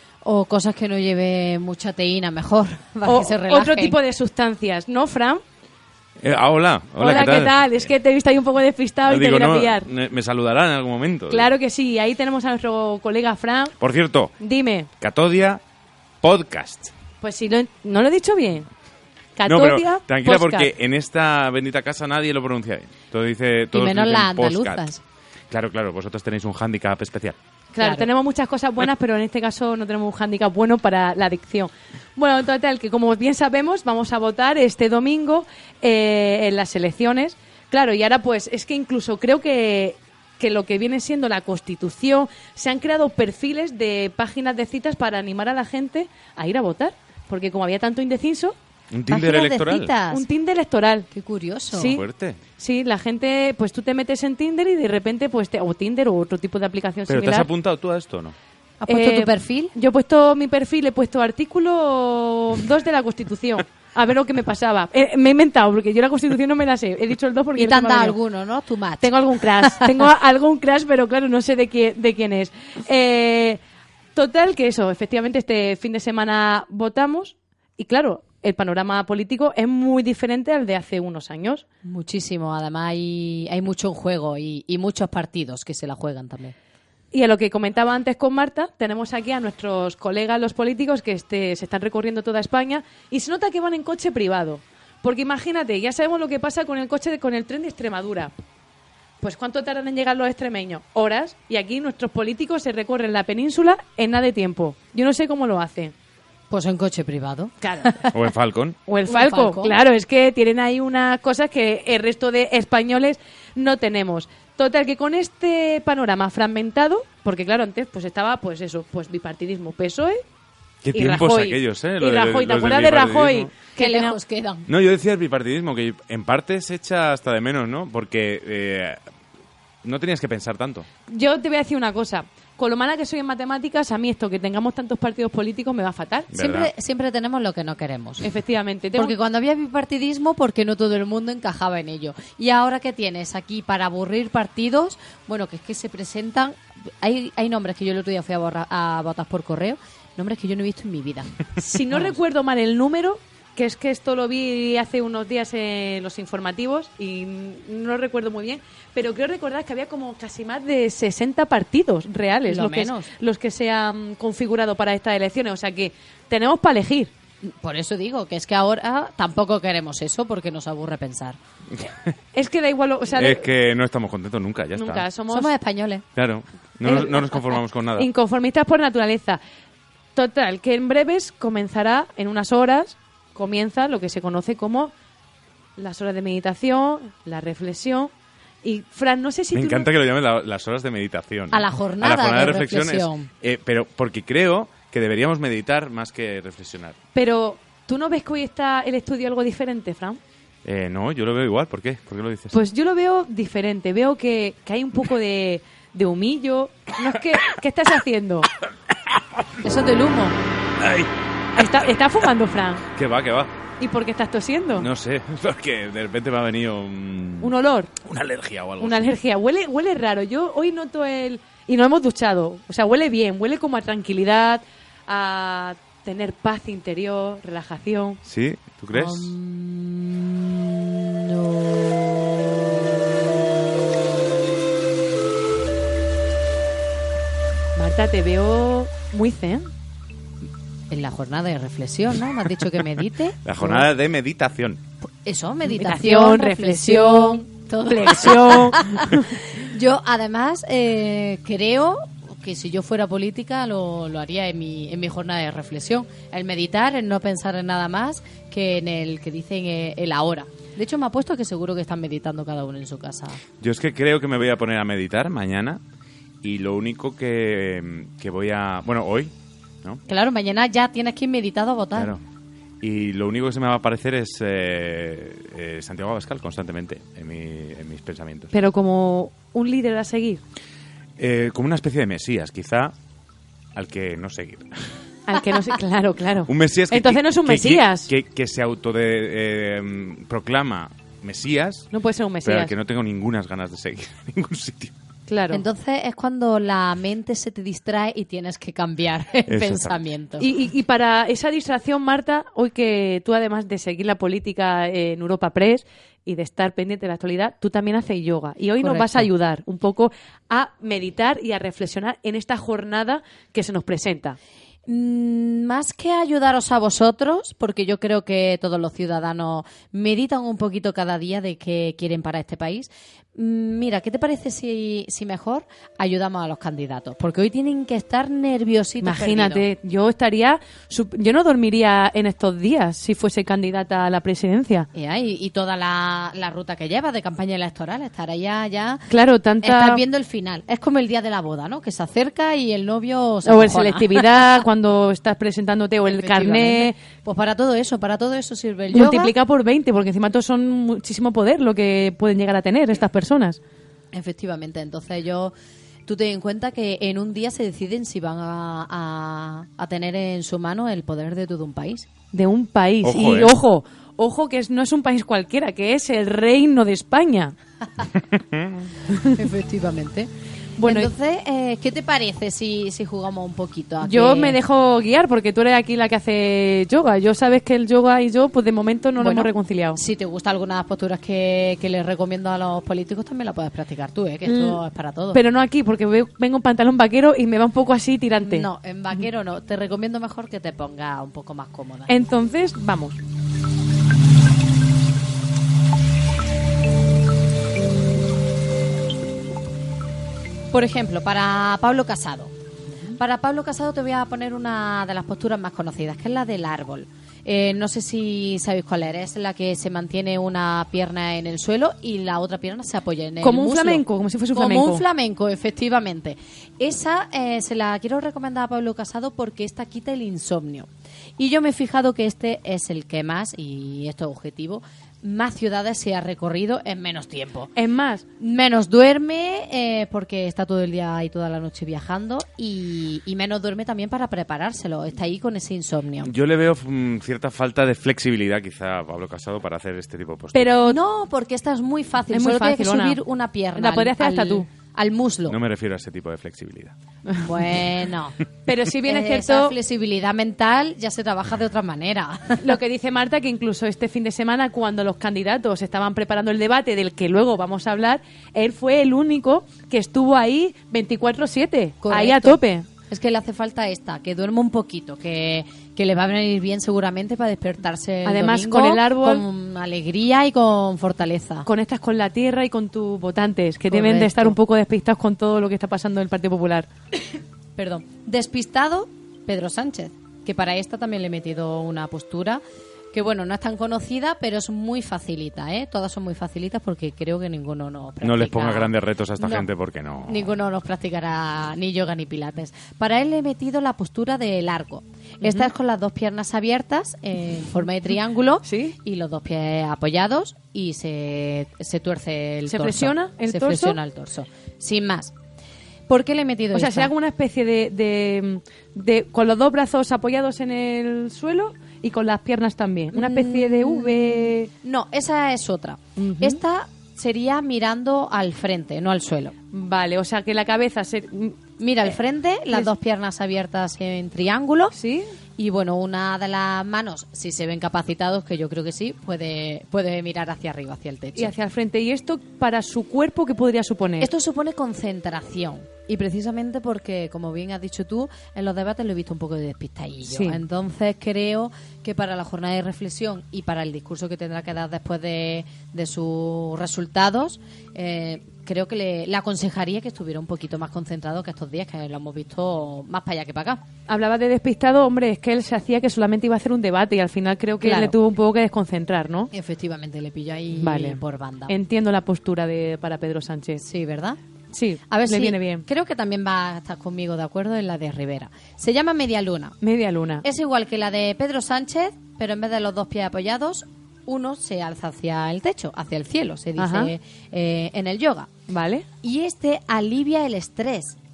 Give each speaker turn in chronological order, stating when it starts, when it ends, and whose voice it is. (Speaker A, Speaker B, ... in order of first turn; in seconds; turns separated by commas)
Speaker A: 0.2-4.0, Speaker B: 3.1-5.4, Speaker C: 6.2-7.8, Speaker B: 7.0-9.9, Speaker C: 9.1-11.5, Speaker B: 11.3-13.7, Speaker C: 13.8-14.3, Speaker B: 14.4-14.9, Speaker C: 15.0-15.6, Speaker C: 16.2-16.9, Speaker B: 17.2-18.7, Speaker B: 19.4-20.7, Speaker C: 19.5-24.8, Speaker A: 23.7-25.0, Speaker C: 25.5-27.4, Speaker B: 27.8-48.5, Speaker A: 27.8-28.1, Speaker C: 48.9-49.9, Speaker A: 49.1-50.2, Speaker B: 50.1-51.1, Speaker A: 51.1-52.0, Speaker B: 51.7-52.0, Speaker C: 51.9-52.4, Speaker B: 52.6-57.5, Speaker C: 57.1-58.4, Speaker A: 58.8-59.7, Speaker B: 58.9-68.2, Speaker A: 67.6-70.0, Speaker B: 69.0-73.6, Speaker B: 74.2-81.7, Speaker A: 81.8-86.5, Speaker B: 87.1-98.3, Speaker B: 99.2-105.9, Speaker A: 106.5-108.1, Speaker B: 107.6-108.0, Speaker C: 108.1-108.8, Speaker B: 108.9-120.2, Speaker A: 109.1-109.8, Speaker C: 120.8-123.5, Speaker B: 120.9-124.2, Speaker A: 123.8-124.7, Speaker C: 124.7-129.0, Speaker C: 129.8-130.9, Speaker B: 131.1-136.3, Speaker C: 136.3-136.7, Speaker A: 136.3-138.3, Speaker B: 138.2-139.1, Speaker A: 138.9-151.3, Speaker B: 151.6-167.1, Speaker A: 162.5-163.1, Speaker A: 167.4-171.4, Speaker B: 172.3-173.5, Speaker C: 173.2-175.1, Speaker B: 174.8-175.5, Speaker A: 175.3-176.1, Speaker C: 176.2-178.1, Speaker B: 176.8-177.3, Speaker B: 178.0-179.4, Speaker B: 180.2-184.9, Speaker B: 185.8-188.1, Speaker B: 188.6-189.9, Speaker C: 189.6-197.0, Speaker A: 191.5-193.3, Speaker B: 197.2-200.2, Speaker C: 200.7-202.6, Speaker B: 202.5-208.5, Speaker B: 209.6-210.3, Speaker C: 210.8-211.1, Speaker B: 211.6-212.8, Speaker C: 211.6-211.9, Speaker C: 212.9-213.5, Speaker B: 213.8-214.9, Speaker C: 214.8-219.1, Speaker B: 217.4-217.9, Speaker B: 218.8-228.2, Speaker C: 228.2-229.3, Speaker A: 228.9-233.0, Speaker B: 237.8-239.7, Speaker A: 240.9-243.8, Speaker C: 243.4-244.8, Speaker A: 245.2-263.4, Speaker B: 245.7-248.8, Speaker C: 263.6-265.8, Speaker C: 266.4-270.0, Speaker A: 270.1-272.1, Speaker C: 272.0-272.2, Speaker C: 272.8-278.5, Speaker B: 278.5-280.4, Speaker C: 281.2-282.9, Speaker C: 283.8-284.7, Speaker B: 285.3-288.1, Speaker C: 286.5-291.9, Speaker B: 291.9-292.7, Speaker C: 292.4-294.9, Speaker B: 295.3-295.6, Speaker A: 295.5-300.5, Speaker C: 299.5-300.0, Speaker B: 300.4-314.4, Speaker A: 308.8-309.3, Speaker A: 314.9-329.6, Speaker B: 329.0-334.9, Speaker A: 334.9-339.1, Speaker B: 339.1-340.0, Speaker A: 339.6-344.6, Speaker B: 343.4-347.0, Speaker A: 346.1-349.4, Speaker B: 348.9-353.6, Speaker A: 354.1-355.5, Speaker A: 356.1-362.1, Speaker B: 362.3-367.5, Speaker C: 363.0-363.5, Speaker C: 368.3-368.8, Speaker B: 369.1-369.4, Speaker A: 369.4-370.3, Speaker B: 370.8-371.1, Speaker A: 370.8-374.6, Speaker B: 374.0-380.0, Speaker A: 379.2-385.4, Speaker B: 384.5-384.8, Speaker B: 385.3-388.7, Speaker A: 388.4-392.1, Speaker B: 392.1-393.2, Speaker A: 400.7-402.5, Speaker A: 403.2-427.7, Speaker B: 413.4-415.0, Speaker B: 427.8-428.2, Speaker A: 428.4-436.3, Speaker C: 436.2-440.8, Speaker B: 440.5-441.0, Speaker A: 440.9-445.6, Speaker B: 442.3-443.2, Speaker B: 443.8-444.7, Speaker C: 445.5-446.9, Speaker A: 447.4-448.4, Speaker B: 448.7-449.8, Speaker A: 449.0-452.7, Speaker B: 452.6-462.9, Speaker A: 462.0-471.7, Speaker B: 468.2-469.4, Speaker B: 471.7-476.9, Speaker A: 473.9-474.6, Speaker A: 477.8-482.6, Speaker A: 483.1-489.7, Speaker C: 488.2-490.5, Speaker A: 490.3-505.3, Speaker B: 498.6-498.9, Speaker B: 502.7-504.0, Speaker A: 506.1-507.1, Speaker B: 506.7-514.7, Speaker A: 513.1-519.5, Speaker B: 516.2-516.6, Speaker B: 519.7-522.1, Speaker A: 521.8-525.0, Speaker B: 524.9-525.3, Speaker A: 525.6-531.5, Speaker B: 531.4-534.3, Speaker A: 534.2-553.8, Speaker B: 540.3-540.6, Speaker B: 554.1-559.5, Speaker A: 557.8-558.2, Speaker A: 559.5-561.7, Speaker B: 560.8-563.8, Speaker A: 563.8-564.4, Speaker B: 564.7-565.9, Speaker A: 565.1-569.8, Speaker B: 569.8-570.5, Speaker A: 570.4-578.5, Speaker B: 576.8-577.1, Speaker B: 578.7-579.1, Speaker A: 579.2-581.2